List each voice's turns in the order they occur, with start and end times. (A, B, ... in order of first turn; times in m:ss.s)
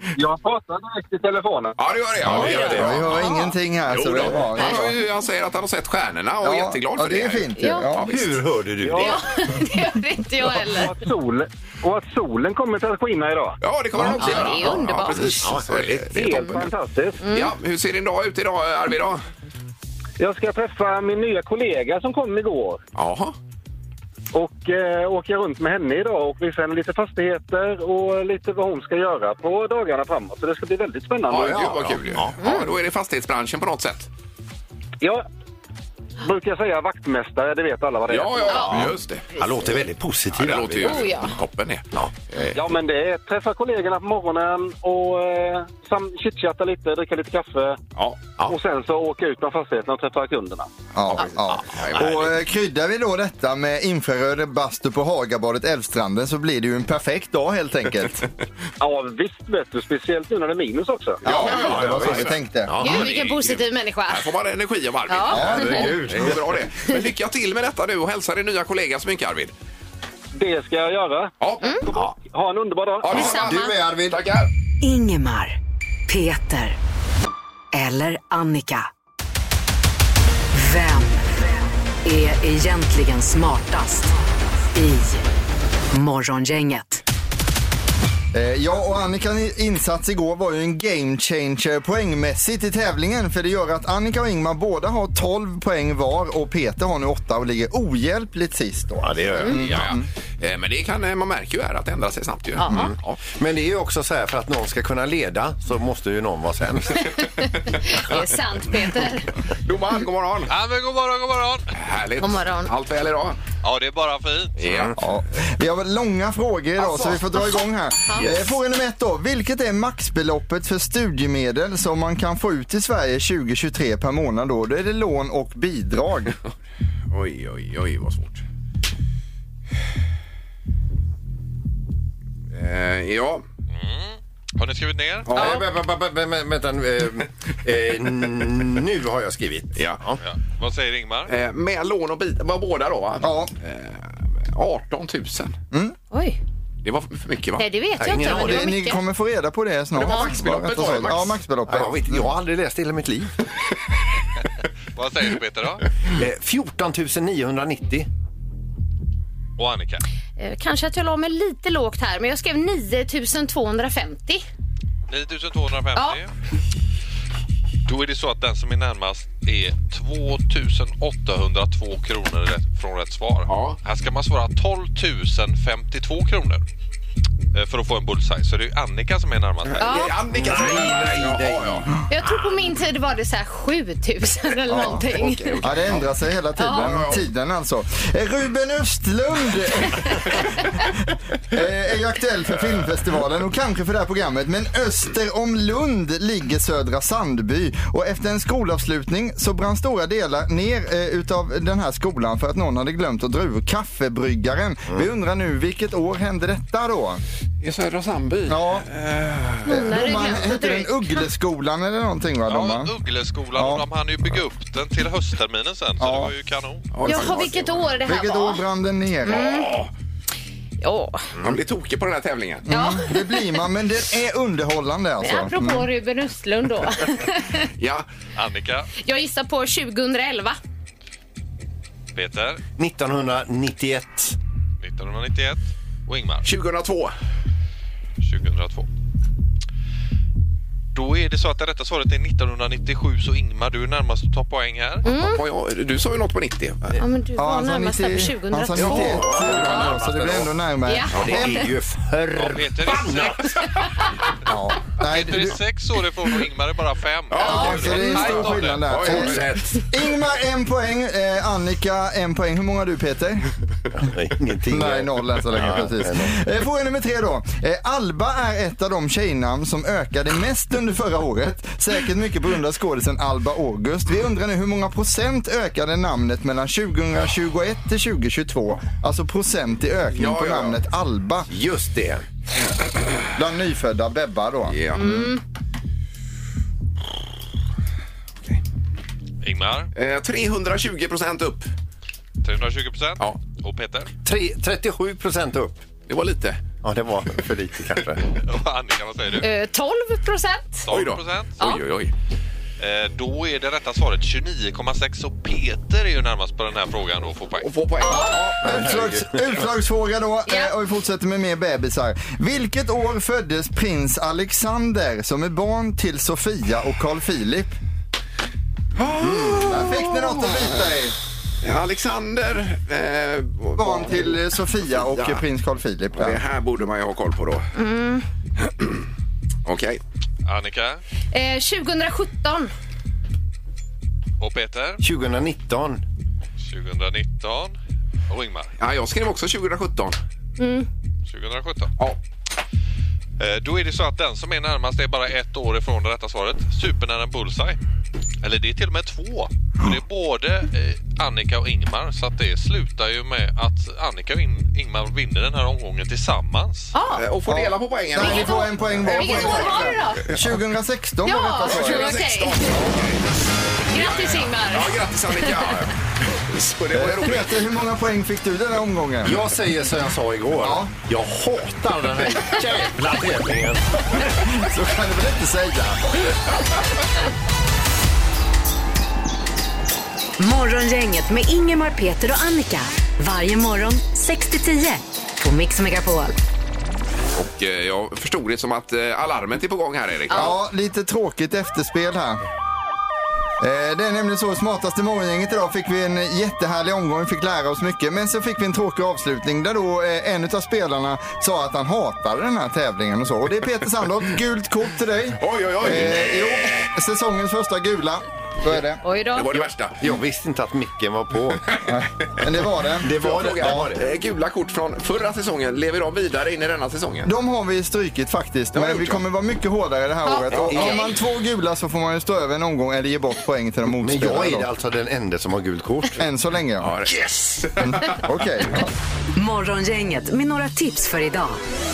0:00.2-0:01.8 A
0:01.8-0:08.4 B
0:02.2-0:03.1 C
0:02.4-0:03.5 D
0:02.5-0:05.0 E
0:06.4-0:08.2 E
0:07.6-0:07.9 D
0:08.1-0:09.2 C
0:08.8-0:09.2 A
0:09.0-0:11.0 D
0:10.6-0:13.6 A
0:13.6-0:16.7 B
0:14.0-0:14.8 C
0:14.2-0:15.4 D
0:15.4-0:16.6 C
0:16.1-0:17.2 A
0:17.2-0:17.5 D
0:17.3-0:19.2 B
0:20.2-0:22.8 A
0:23.0-0:23.4 B
0:24.3-0:31.8 A
0:31.3-0:34.1 B
0:32.1-0:32.4 C
0:32.4-0:32.7 D
0:36.2-0:38.7 A
0:38.1-0:39.3 B
0:38.5-0:38.8 D
0:38.6-0:41.2 C
0:40.4-0:42.6 B
0:40.8-0:41.3 D
0:42.6-0:47.8 A
0:48.5-0:50.7 A
0:51.0-0:58.3 E
0:51.0-0:52.3 B
0:52.0-0:52.2 C
0:58.8-1:01.2 A
1:01.2-1:02.8 E
1:01.2-1:09.5 B
1:01.5-1:03.0 C
1:02.8-1:04.3 D
1:05.1-1:05.9 D
1:05.3-1:06.6 C
1:05.4-1:05.9 E
1:10.3-1:11.3 A
1:11.4-1:11.8 B
1:11.8-1:13.1 A
1:13.0-1:14.5 B
1:13.1-1:13.7 D
1:13.1-1:14.2 C
1:14.8-1:15.6 F
1:16.1-1:16.8 F
1:17.7-1:18.9 F
1:20.5-1:21.2 F
1:22.0-1:24.1 F
1:24.7-1:25.2 F
1:25.9-1:27.0 F
1:28.3-1:40.1 E
1:39.0-1:39.8 C
1:39.6-1:43.2 B
1:42.6-1:42.9 D
1:42.6-1:47.2 C
1:47.2-1:49.4 D
1:49.6-1:50.5 B
1:50.5-1:51.6 G
1:51.8-1:53.4 B
1:52.2-1:52.7 D
1:53.6-1:54.6 G
1:54.6-1:54.9 B
1:54.7-1:55.0 C
1:55.0-2:06.4 E
1:56.8-1:57.2 B
2:07.1-2:08.4 B
2:12.5-2:13.4 B
2:13.7-2:15.3 G
2:15.3-2:15.6 B
2:15.3-2:20.2 C
2:19.8-2:20.0 B
2:20.2-2:21.3 G
2:21.3-2:25.6 B
2:23.2-2:23.5 E
2:26.1-2:26.4 D
2:26.8-2:27.6 B
2:27.6-2:29.0 D
2:28.0-2:28.7 C
2:28.1-2:32.3 E
2:29.9-2:31.4 B
2:31.7-2:33.3 C
2:35.0-2:35.9 G
2:36.1-2:38.1 C
2:39.6-2:40.0 G
2:40.4-2:44.4 D
2:45.1-2:46.3 G
2:47.9-2:56.6 G
2:53.5-2:53.8 B
2:57.5-3:00.0 G
2:59.7-3:01.9 B
2:59.8-3:00.2 D
3:00.3-3:01.9 C
3:02.1-3:05.6 D
3:04.7-3:10.9 E
3:04.7-3:06.0 B
3:06.6-3:07.1 D
3:06.8-3:07.2 B
3:11.5-3:27.2 E
3:27.6-3:29.7 B
3:28.5-3:28.9 E
3:29.7-3:31.3 D
3:29.7-3:32.9 E
3:32.5-3:37.2 G
3:33.5-3:33.9 E
3:36.0-3:36.3 E
3:36.9-3:37.7 B
3:37.1-3:38.6 D
3:38.1-3:39.6 E
3:39.3-3:39.7 D
3:39.3-3:39.9 B
3:40.8-3:41.3 D
3:41.4-3:42.6 B
3:42.7-3:45.9 E
3:42.7-3:43.6 D
3:45.2-3:47.7 D
3:47.8-3:48.1 B
3:48.4-3:48.9 G
3:49.0-3:50.6 D
3:52.2-3:52.6 G
3:52.8-3:54.4 C
3:54.8-3:56.5 G
3:56.4-3:57.1 B
3:58.2-3:58.9 G
4:01.0-4:05.1 G
4:05.0-4:05.4 D
4:05.1-4:07.0 B
4:07.0-4:08.9 D
4:07.4-4:11.5 E
4:08.8-4:09.7 B
4:08.8-4:10.5 C
4:10.9-4:11.6 D
4:11.1-4:13.6 C
4:11.2-4:11.5 B
4:12.4-4:13.6 G
4:14.5-4:15.6 E
4:15.0-4:19.0 G
4:17.3-4:19.4 B
4:17.4-4:18.0 D
4:17.4-4:23.5 E
4:19.0-4:19.8 C
4:24.0-4:26.4 C
4:24.7-4:41.5 E
4:40.1-4:40.8 B
4:41.5-4:42.2 C
4:43.0-4:43.3 B
4:43.4-4:45.3 E
4:44.7-4:45.2 B
4:45.0-4:45.4 D
4:49.4-4:49.9 G
4:50.0-4:51.7 B
4:52.4-4:54.1 G
4:54.2-4:55.8 C
4:56.1-4:56.6 B
4:56.8-4:58.3 C
4:58.4-4:59.5 G
4:59.4-5:00.9 D
5:00.9-5:01.6 G
5:00.9-5:02.1 B
5:02.8-5:07.7 G
5:07.6-5:08.9 B
5:08.0-5:08.4 D
5:08.6-5:09.5 C
5:08.6-5:17.7 E
5:10.5-5:10.7 D
5:19.0-5:20.8 B
5:19.2-5:19.6 C
5:19.6-5:21.2 E
5:21.6-5:24.4 B
5:23.8-5:26.4 E
5:25.1-5:25.4 B
5:26.2-5:27.7 B
5:27.8-5:28.2 D
5:28.7-5:29.0 B
5:29.7-5:30.0 B
5:30.5-5:31.0 G
5:31.3-5:32.7 D
5:34.4-5:35.0 G
5:35.0-5:36.0 C
5:36.6-5:37.8 G
5:38.3-5:38.7 G
5:38.8-5:40.2 B
5:40.6-5:40.9 D
5:41.3-5:41.9 G
5:43.4-5:47.8 G
5:48.4-5:56.9 G
5:56.9-5:57.2 D
5:57.1-6:00.5 B
5:57.5-6:02.2 E
5:58.2-6:00.2 D
6:01.2-6:02.8 D
6:01.6-6:03.3 B
6:03.9-6:05.7 D
6:03.9-6:07.6 B
6:06.9-6:09.5 E
6:09.2-6:14.0 C
6:10.6-6:10.9 E
6:14.3-6:16.2 E
6:20.4-6:26.4 F
6:27.4-6:30.6 B
6:30.3-6:32.4 E
6:33.6-6:49.0 E
6:45.4-6:46.9 B
6:49.0-6:49.5 D
6:49.4-6:50.0 B
6:49.6-6:51.8 C
6:51.8-6:53.9 E
6:53.0-6:54.0 C
6:53.2-6:57.3 B
6:57.2-7:04.7 E
6:58.7-6:59.2 B
7:00.3-7:01.2 D
7:00.5-7:00.9 B
7:00.7-7:01.0 C
7:03.9-7:06.2 C
7:06.2-7:06.9 E
7:06.8-7:08.2 B
7:07.8-7:08.9 E
7:09.4-7:11.6 F